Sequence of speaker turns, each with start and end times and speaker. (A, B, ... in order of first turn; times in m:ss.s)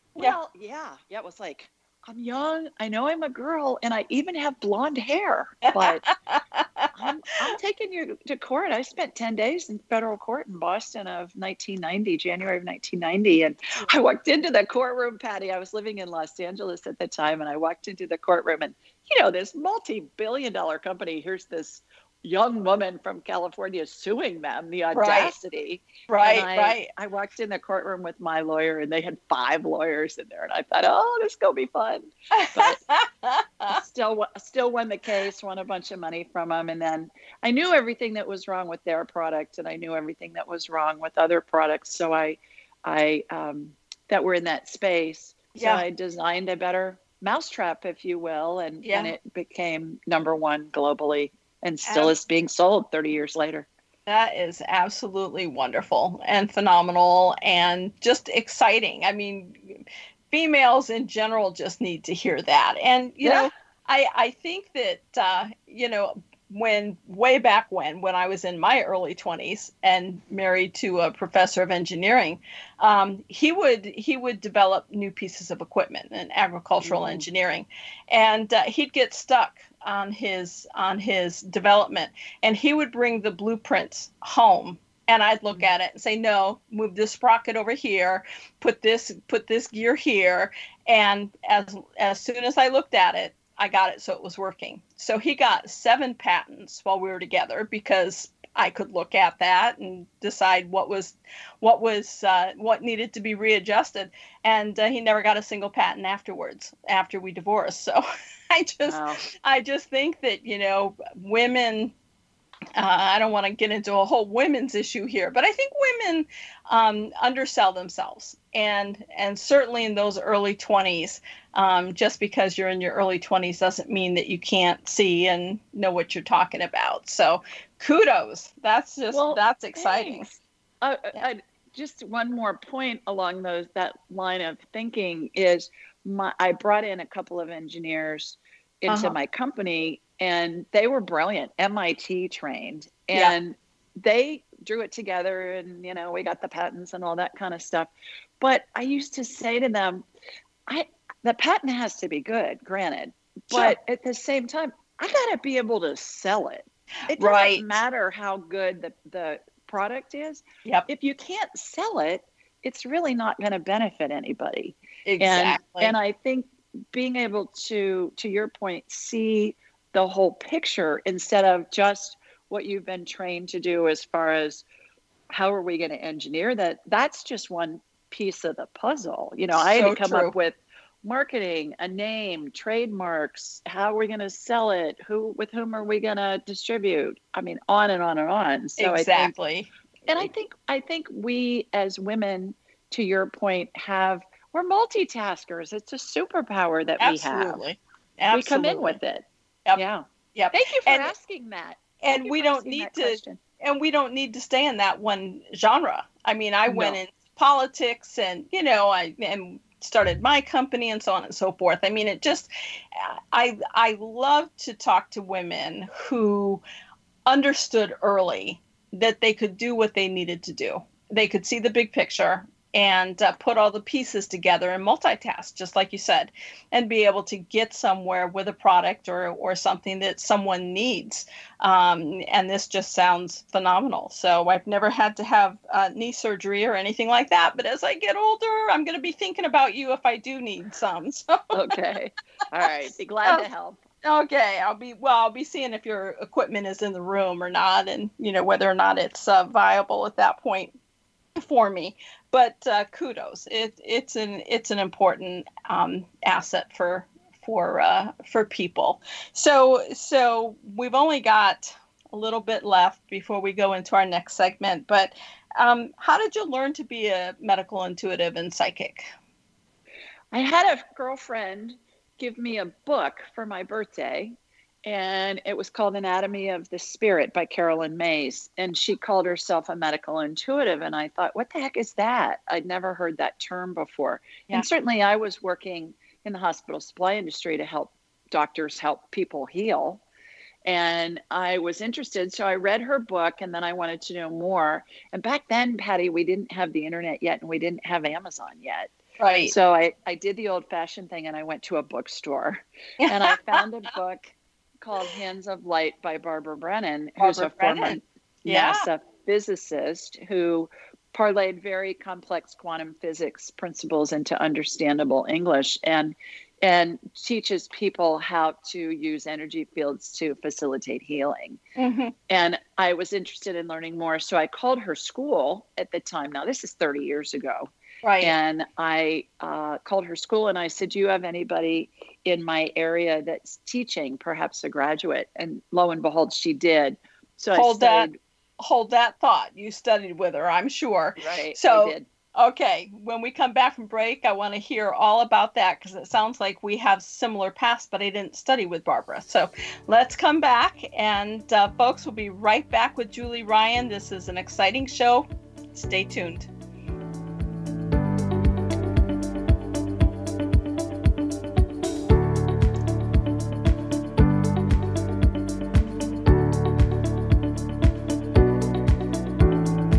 0:00.2-0:06.0 A
0:05.7-0:06.9 B
0:07.0-0:32.8 A
0:24.9-0:25.3 B
0:26.1-0:26.8 B
0:32.3-0:33.8 B
0:33.7-0:53.7 A
0:45.6-0:45.8 B
0:48.8-0:49.1 B
0:51.8-0:52.1 B
0:54.1-1:51.9 B
1:03.2-1:03.5 A
1:16.8-1:17.2 A
1:48.9-1:49.2 A
1:52.8-2:10.3 B
2:09.1-2:30.0 A
2:18.9-2:19.2 B
2:30.7-2:54.6 A
2:33.5-2:33.8 B
2:37.1-2:37.7 B
2:45.0-2:46.0 B
2:55.3-3:09.3 A
2:59.6-3:00.3 B
3:08.8-3:10.3 B
3:10.1-3:17.6 A
3:17.0-3:19.0 B
3:18.3-3:23.4 A
3:20.3-3:21.1 B
3:22.0-3:36.6 B
3:26.7-3:27.0 A
3:37.2-4:01.5 B
4:01.5-4:03.8 A
4:04.0-4:10.7 B
4:11.4-4:29.1 B
4:30.3-4:50.0 A
4:50.6-5:21.6 A
4:59.2-4:59.5 B
5:03.0-5:03.4 B
5:07.2-5:08.9 B
5:21.8-5:22.1 B
5:22.3-5:27.7 A
5:28.0-5:28.3 B
5:28.2-5:38.2 A
5:37.5-5:38.1 B
5:38.6-5:56.5 B
5:41.2-5:42.0 A